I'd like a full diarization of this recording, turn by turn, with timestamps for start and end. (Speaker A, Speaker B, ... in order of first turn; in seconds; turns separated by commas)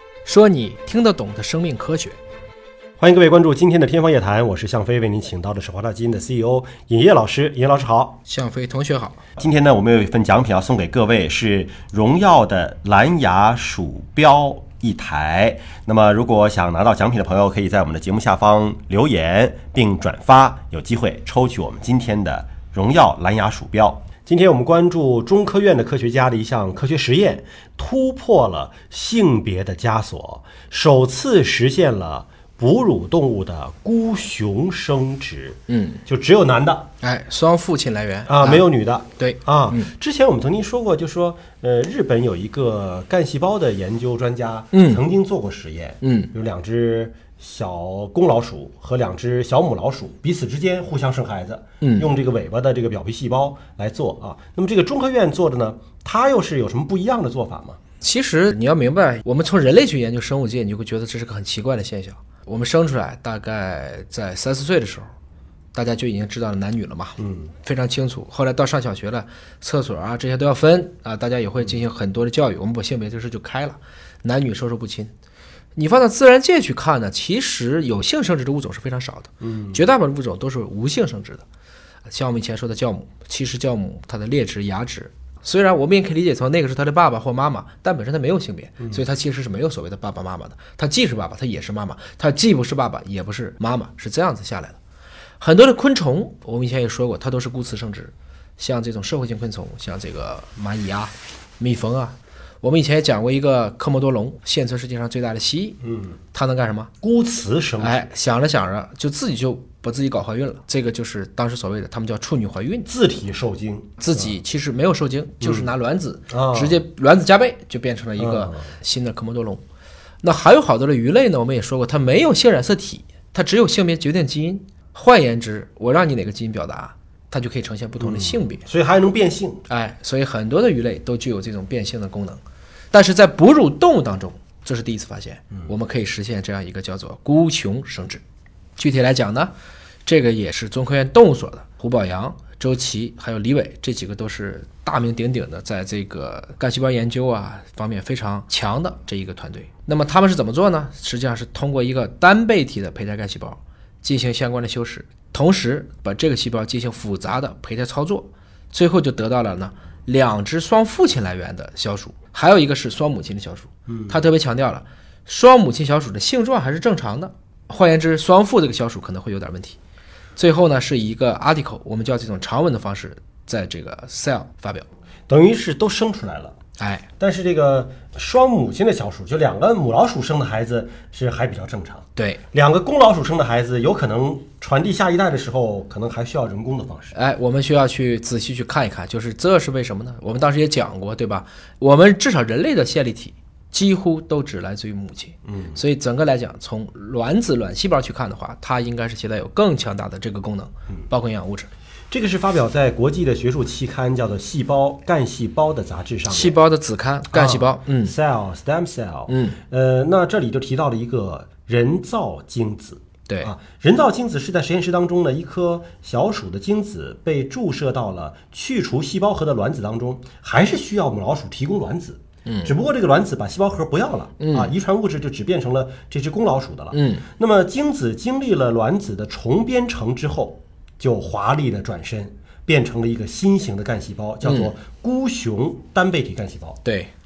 Speaker A: 0.2-2.2, Speaker B: 3.0-8.2, Speaker A: 8.2-9.2, Speaker B: 9.4-36.9, Speaker A: 35.7-36.0, Speaker A: 37.0-38.7, Speaker B: 38.3-57.8, Speaker A: 39.2-39.9, Speaker A: 44.7-45.0, Speaker A: 46.0-46.3, Speaker A: 51.8-52.1, Speaker A: 58.0-65.1, Speaker A: 65.7-75.1, Speaker B: 67.2-67.5, Speaker A: 75.8-81.4, Speaker B: 79.4-79.8, Speaker A: 82.1-94.8, Speaker A: 95.4-105.8, Speaker B: 105.8-106.2, Speaker A: 106.3-106.9, Speaker B: 107.0-108.0, Speaker A: 107.8-112.9, Speaker B: 112.8-114.3, Speaker A: 114.0-119.6, Speaker B: 115.4-115.7, Speaker B: 116.3-116.8, Speaker B: 118.2-118.6, Speaker A: 120.2-128.6, Speaker B: 128.0-129.6, Speaker A: 129.7-132.4, Speaker A: 132.9-138.2, Speaker A: 138.8-139.5, Speaker A: 140.1-169.8, Speaker B: 163.9-164.2, Speaker A: 170.4-174.9, Speaker B: 175.3-176.5, Speaker A: 176.8-177.1, Speaker B: 177.2-187.2, Speaker A: 182.2-182.4, Speaker A: 187.1-201.7, Speaker B: 195.4-195.8, Speaker B: 202.1-206.6, Speaker A: 206.3-208.1, Speaker B: 207.3-236.8, Speaker A: 209.3-209.6, Speaker A: 222.4-222.7, Speaker A: 224.4-224.7, Speaker A: 226.9-227.2, Speaker A: 234.4-234.7, Speaker A: 236.8-237.1